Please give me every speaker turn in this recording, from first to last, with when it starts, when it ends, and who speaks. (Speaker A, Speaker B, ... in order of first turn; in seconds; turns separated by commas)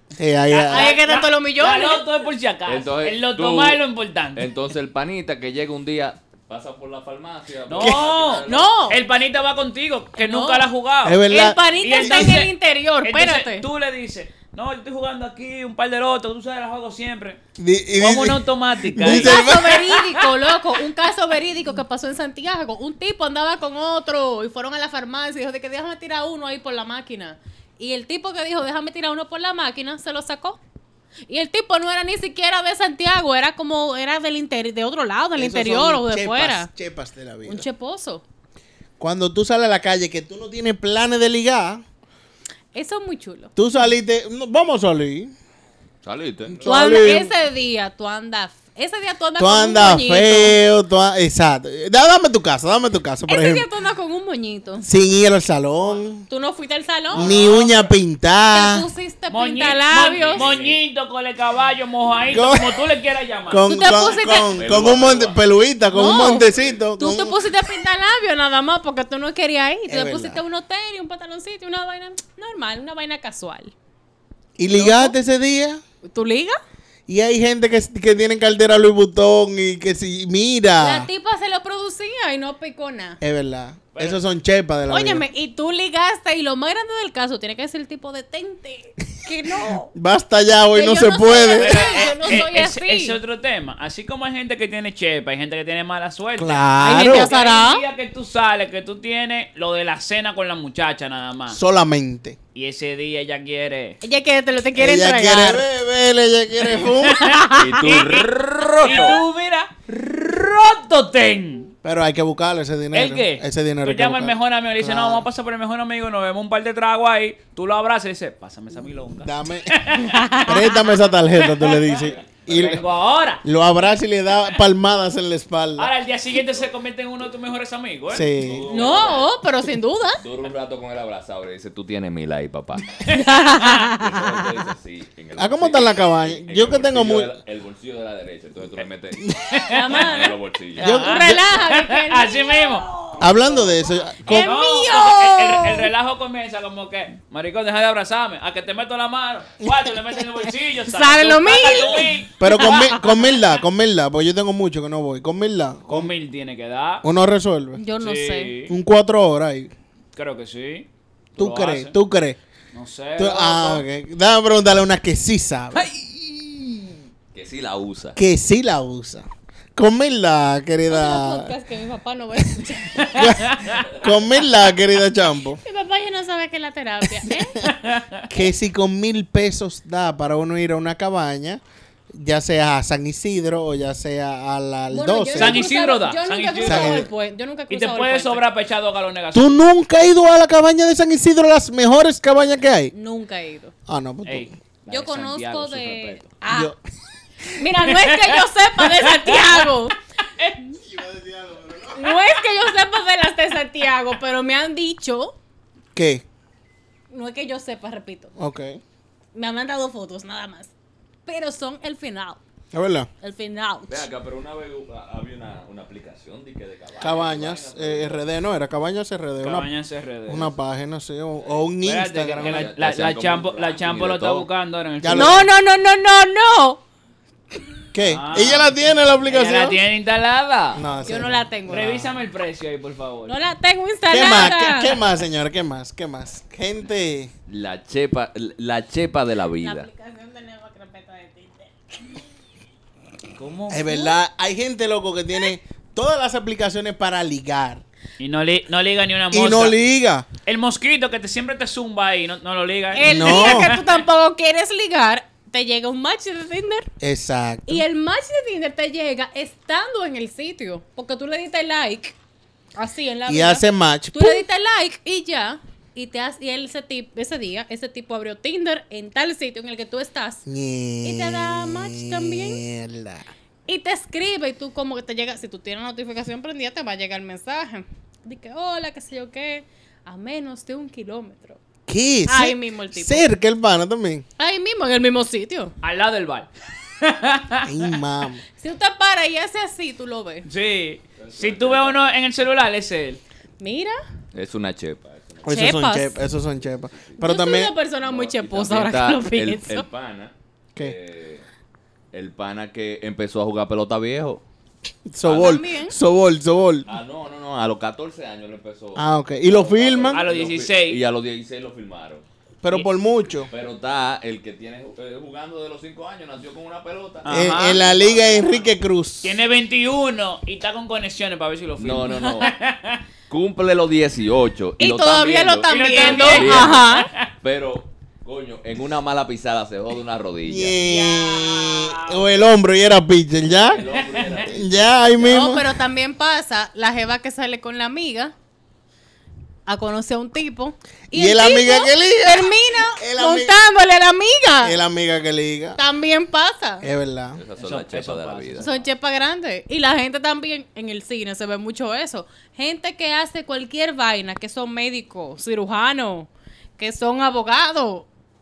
Speaker A: 0.2-1.0, Speaker B: 0.5-4.5, Speaker C: 0.7-2.0, Speaker D: 2.7-3.8, Speaker D: 4.3-8.7, Speaker B: 7.7-11.2, Speaker A: 7.8-8.1, Speaker C: 8.4-9.0, Speaker C: 10.2-10.7, Speaker A: 11.0-12.3, Speaker C: 11.3-13.6, Speaker B: 11.8-17.4, Speaker A: 17.6-19.8, Speaker B: 18.0-20.5, Speaker C: 19.1-30.6, Speaker C: 31.3-36.7, Speaker A: 35.4-37.7, Speaker C: 37.4-38.2, Speaker A: 39.0-41.8, Speaker C: 42.7-43.5, Speaker A: 43.5-45.3, Speaker D: 46.0-47.1, Speaker A: 46.5-47.3, Speaker C: 46.6-50.6, Speaker A: 49.4-53.6, Speaker C: 53.3-54.9, Speaker A: 54.8-56.2, Speaker C: 56.3-57.4, Speaker A: 57.1-58.9, Speaker B: 57.2-57.9, Speaker C: 58.5-60.5, Speaker B: 59.3-63.7, Speaker D: 60.2-60.8, Speaker D: 62.1-62.4, Speaker A: 62.3-62.8, Speaker A: 63.5-67.3, Speaker C: 63.6-64.5, Speaker D: 64.5-65.4, Speaker C: 65.9-73.7, Speaker A: 69.9-70.4, Speaker A: 74.6-75.8, Speaker C: 74.7-75.1, Speaker C: 76.0-76.5, Speaker A: 77.1-81.1, Speaker C: 80.8-83.2, Speaker A: 83.2-85.2, Speaker B: 83.9-84.2, Speaker C: 84.9-89.9, Speaker A: 89.9-92.1, Speaker C: 90.7-93.2, Speaker B: 91.5-101.6, Speaker A: 96.4-97.3, Speaker C: 96.8-97.8, Speaker A: 101.5-102.4, Speaker B: 102.5-104.0, Speaker C: 104.0-105.6, Speaker A: 104.8-107.3, Speaker B: 106.9-108.2, Speaker C: 107.2-107.7, Speaker D: 107.5-109.2, Speaker B: 108.8-111.7, Speaker A: 111.8-115.3, Speaker B: 112.9-120.3, Speaker A: 119.2-119.8, Speaker C: 120.1-120.5, Speaker A: 120.3-122.8, Speaker B: 121.5-123.4, Speaker D: 122.0-122.8, Speaker A: 123.4-125.9, Speaker B: 125.8-129.1, Speaker A: 128.1-128.7, Speaker D: 128.3-129.3, Speaker C: 128.7-130.2, Speaker D: 130.2-133.0, Speaker B: 133.1-133.8, Speaker C: 133.1-134.0, Speaker D: 133.8-139.3, Speaker A: 135.3-137.4, Speaker B: 139.5-140.1, Speaker C: 139.7-145.9, Speaker D: 139.8-140.9, Speaker A: 140.8-141.4, Speaker B: 140.8-142.9, Speaker A: 143.2-144.6, Speaker B: 144.3-152.9, Speaker C: 150.9-153.1, Speaker A: 152.4-156.1, Speaker B: 155.9-157.0, Speaker A: 157.0-157.8, Speaker C: 157.8-158.5, Speaker B: 158.0-158.7, Speaker A: 158.7-159.7, Speaker B: 160.1-161.9, Speaker A: 161.4-162.4, Speaker B: 162.7-163.8, Speaker A: 163.2-165.9, Speaker D: 165.7-168.2, Speaker A: 168.2-171.5, Speaker C: 170.9-173.2, Speaker B: 173.0-173.8, Speaker A: 173.0-175.6, Speaker C: 175.6-177.6, Speaker B: 177.6-178.2, Speaker A: 178.3-185.6, Speaker C: 184.9-188.4, Speaker B: 185.3-187.1, Speaker A: 186.6-187.1, Speaker B: 187.7-189.6, Speaker A: 189.3-192.9, Speaker C: 192.9-193.7, Speaker A: 193.9-194.5, Speaker B: 194.2-196.3, Speaker C: 194.9-196.7, Speaker A: 196.5-196.8, Speaker C: 197.5-199.9, Speaker B: 197.9-199.7, Speaker A: 200.8-202.2, Speaker C: 201.9-205.3, Speaker A: 205.9-206.2, Speaker C: 207.1-208.3, Speaker A: 208.4-208.8, Speaker C: 209.3-210.7, Speaker C: 211.2-212.4, Speaker A: 212.7-213.1, Speaker C: 213.2-214.1, Speaker D: 213.9-218.2, Speaker A: 217.0-219.7, Speaker B: 219.4-220.5, Speaker A: 220.3-222.7, Speaker B: 221.8-225.4, Speaker D: 222.4-224.5, Speaker A: 225.0-225.5, Speaker C: 225.1-226.8, Speaker A: 227.9-229.8, Speaker B: 228.0-228.7, Speaker B: 229.2-230.8, Speaker A: 230.7-232.0, Speaker C: 231.0-232.0, Speaker B: 231.7-233.3, Speaker C: 233.3-234.9, Speaker A: 234.1-237.3, Speaker D: 237.5-239.9, Speaker C: 239.6-241.7, Speaker B: 243.3-243.8, Speaker A: 243.7-247.8, Speaker B: 248.2-249.8, Speaker A: 249.3-250.2, Speaker B: 250.4-253.7, Speaker C: 252.9-256.9, Speaker A: 253.0-253.7, Speaker A: 257.0-257.8, Speaker C: 257.7-262.1, Speaker C: 262.8-270.4, Speaker A: 263.3-264.4, Speaker A: 270.4-273.3, Speaker C: 271.0-272.6, Speaker C: 273.7-281.6, Speaker A: 281.9-284.2, Speaker C: 282.3-283.3, Speaker C: 284.4-285.7, Speaker B: 285.8-286.5, Speaker B: 287.0-287.7, Speaker A: 287.6-288.4, Speaker C: 288.6-290.4, Speaker B: 290.4-293.2, Speaker D: 291.2-292.0, Speaker C: 293.6-294.0, Speaker D: 294.3-295.9, Speaker A: 295.4-297.7, Speaker C: 295.5-296.1, Speaker D: 296.6-297.2, Speaker C: 297.2-299.8, Speaker D: 298.0-301.4, Speaker D: 302.1-304.4, Speaker A: 305.1-306.9, Speaker D: 305.2-305.6, Speaker C: 305.3-305.9, Speaker D: 306.9-312.2, Speaker A: 308.9-310.2, Speaker B: 310.1-311.0, Speaker A: 312.6-313.5, Speaker D: 313.5-318.7, Speaker B: 317.2-317.8, Speaker A: 317.3-319.4, Speaker B: 319.2-323.0, Speaker D: 321.8-322.5, Speaker C: 322.1-322.4, Speaker D: 323.3-326.8, Speaker C: 324.8-327.1, Speaker B: 325.7-327.3, Speaker D: 327.4-330.8, Speaker A: 330.4-333.9, Speaker B: 330.9-332.3, Speaker D: 333.6-335.3, Speaker B: 333.9-334.5, Speaker A: 334.4-335.7, Speaker C: 335.2-338.3, Speaker C: 339.7-344.8, Speaker A: 341.1-343.6, Speaker A: 344.6-345.8, Speaker C: 345.8-346.9, Speaker A: 346.8-347.4, Speaker D: 347.3-348.7, Speaker B: 347.6-348.8, Speaker C: 348.6-358.1